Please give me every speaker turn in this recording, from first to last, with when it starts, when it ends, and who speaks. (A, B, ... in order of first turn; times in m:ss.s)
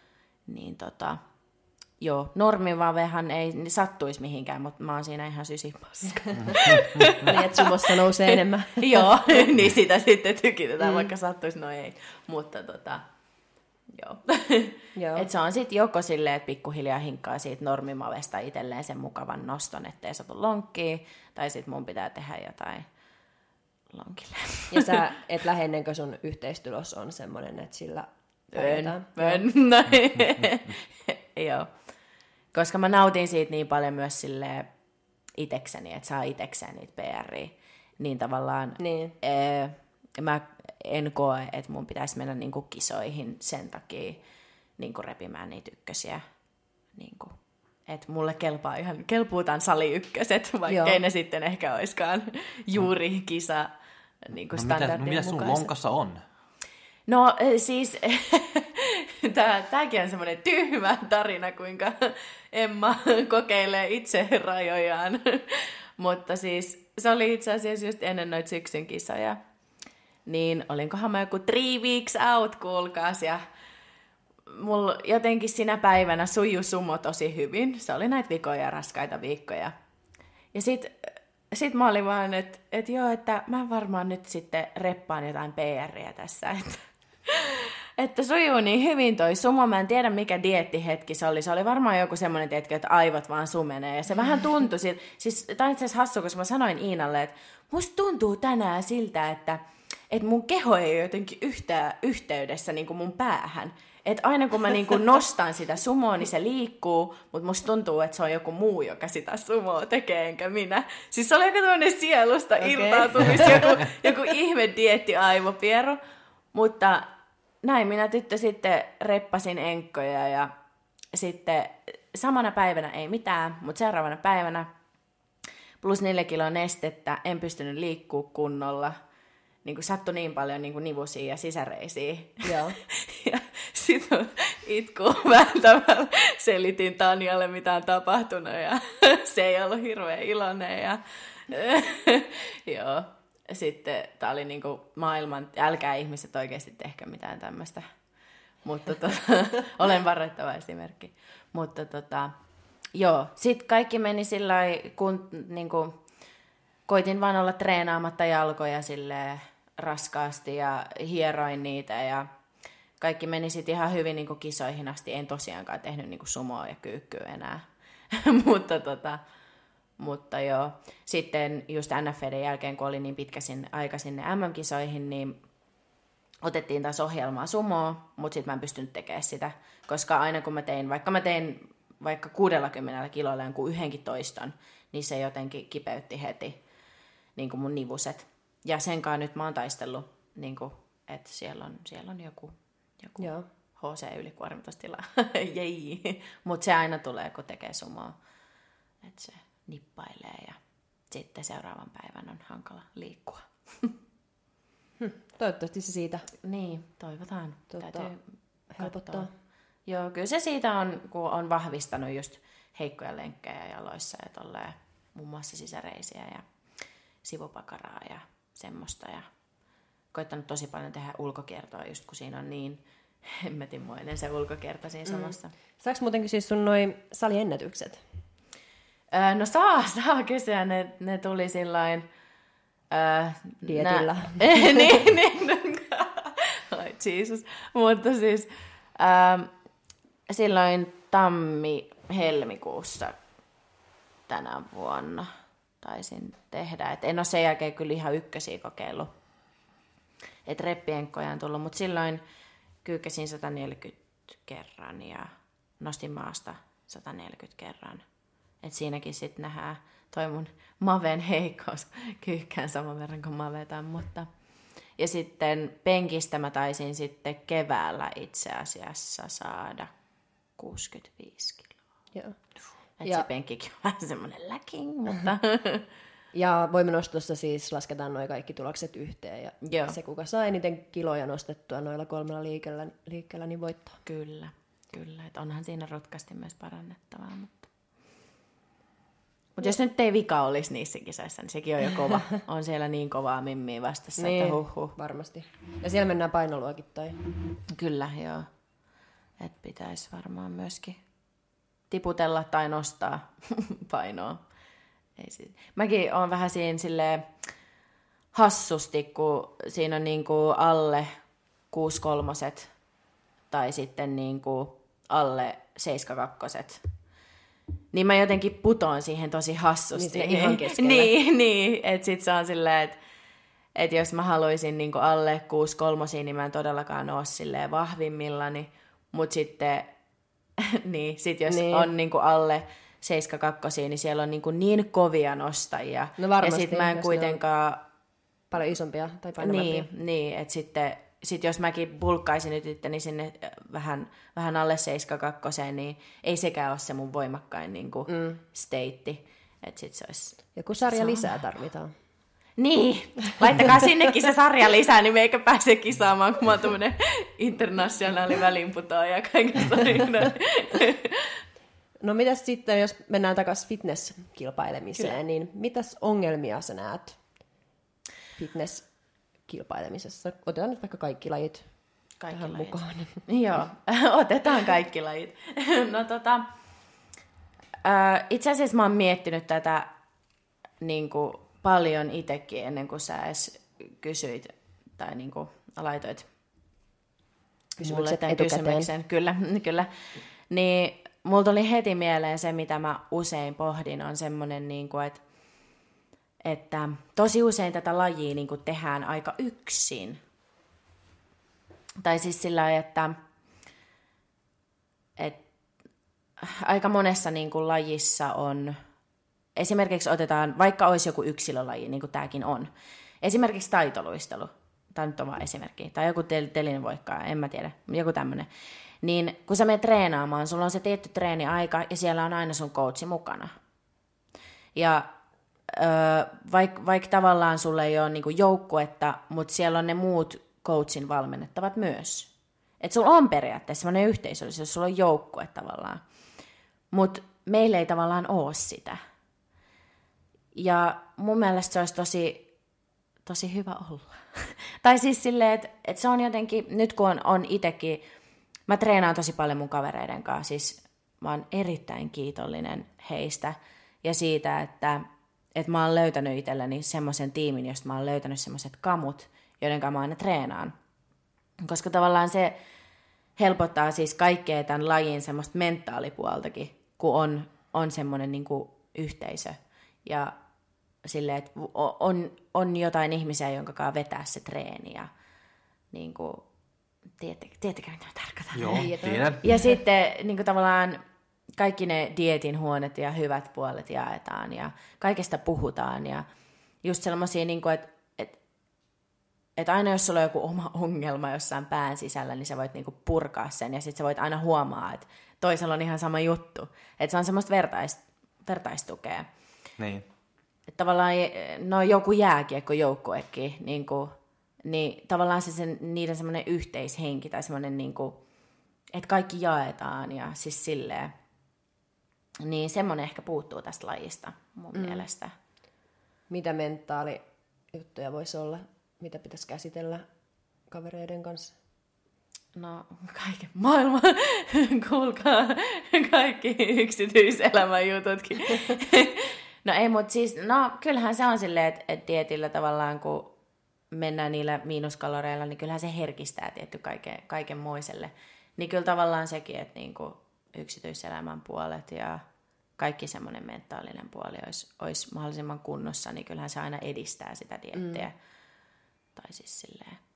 0:00.5-0:01.2 A
0:02.0-0:13.0 A
0:07.2-0:09.2 B
0:10.8-0:11.1 B
0:13.9-0:22.9 A
0:14.9-0:15.3 B
0:23.9-0:25.0 A
0:24.7-0:29.4 B
0:28.5-0:31.7 A
0:32.5-0:34.7 A
0:35.4-0:44.2 A
0:38.8-0:39.1 B
0:44.8-0:46.2 A
0:46.9-0:47.4 A
0:47.9-0:53.7 A
0:50.7-0:51.0 B
0:54.2-0:55.7 A
0:54.5-0:56.2 C
0:57.1-1:09.4 A
1:10.3-1:13.4 A
1:14.5-1:19.7 A
1:20.5-1:56.0 A
1:52.6-1:53.7 B
1:56.5-1:57.1 A
1:57.6-2:00.5 A
2:01.1-2:04.7 A
2:05.8-2:09.0 A
2:09.6-2:27.8 A
2:12.4-2:12.8 B
2:28.6-2:32.3 A
2:32.9-2:36.0 A
2:36.9-2:42.3 A
2:43.0-2:49.2 A
2:50.0-2:55.4 A
2:56.4-3:06.6 A
3:07.4-3:18.1 A
3:13.2-3:13.4 B
3:19.0-3:20.6 A
3:21.1-3:23.9 A
3:25.0-3:26.3 B
3:26.4-3:28.2 A
3:27.7-3:28.1 B
3:28.7-3:29.3 B
3:28.8-3:29.3 A
3:29.9-3:36.4 A
3:37.2-3:39.2 A
3:40.1-3:45.5 A
3:45.0-3:48.0 B
3:49.1-3:52.1 A
3:52.9-3:59.5 A
3:53.6-3:54.9 B
4:00.3-4:03.2 A
4:04.3-4:05.3 A
4:05.8-4:09.1 A
4:10.4-4:12.2 A
4:12.8-4:18.0 A
4:18.6-4:24.3 A
4:25.0-4:29.9 A
4:30.6-4:31.8 A
4:33.0-4:35.8 A
4:36.3-4:44.0 B
4:39.6-4:40.0 A
4:44.0-4:47.7 A
4:49.5-4:54.9 A
4:54.2-4:57.2 B
4:57.7-4:58.5 A
4:59.4-5:01.0 A
5:01.9-5:04.4 A
5:05.2-5:07.3 A
5:08.3-5:11.1 A
5:11.7-5:12.7 A
5:13.5-5:16.8 A
5:17.9-5:23.0 A
5:19.9-5:21.1 B
5:23.8-5:29.9 A
5:30.6-5:37.8 A
5:31.5-5:31.9 B
5:36.2-5:37.4 B
5:38.5-5:39.9 B
5:39.4-5:51.4 A
5:48.1-5:48.4 B
5:50.5-5:51.9 B
5:52.6-6:01.4 A
6:02.0-6:07.2 B
6:08.4-6:08.9 B
6:09.4-6:11.7 B
6:12.2-6:16.5 A
6:12.3-6:13.2 B
6:17.8-6:19.9 A
6:20.8-6:26.3 A
6:27.8-6:29.9 A
6:27.8-6:28.9 B
6:30.5-6:35.2 A
6:36.4-6:40.2 A
6:42.0-6:43.2 A
6:45.2-6:45.4 A
6:46.4-6:48.8 A
6:49.6-6:52.7 A
6:53.2-6:58.5 A
6:59.0-7:03.5 A
7:04.7-7:05.1 A
7:05.7-7:16.0 A
7:16.9-7:19.0 A
7:20.6-7:22.4 A
7:23.2-7:28.0 A
7:28.7-7:35.0 A
7:35.6-7:40.7 A
7:41.6-7:42.6 A
7:43.4-7:50.3 A
7:51.0-7:55.1 A
7:55.9-7:56.4 A
7:57.2-8:01.0 A
7:58.5-7:59.4 C
7:58.7-7:59.8 B
8:01.6-8:06.2 A
8:06.8-8:08.4 A
8:09.6-8:19.3 A
8:19.8-8:20.0 C
8:20.8-8:28.2 A
8:28.9-8:31.1 A
8:32.4-8:35.3 A
8:34.7-8:35.0 B
8:36.3-8:40.0 B
8:40.7-8:41.6 B
8:42.6-8:53.3 A
8:53.9-9:02.2 A
9:02.8-9:08.1 A
9:07.8-9:08.0 B
9:09.1-9:10.0 A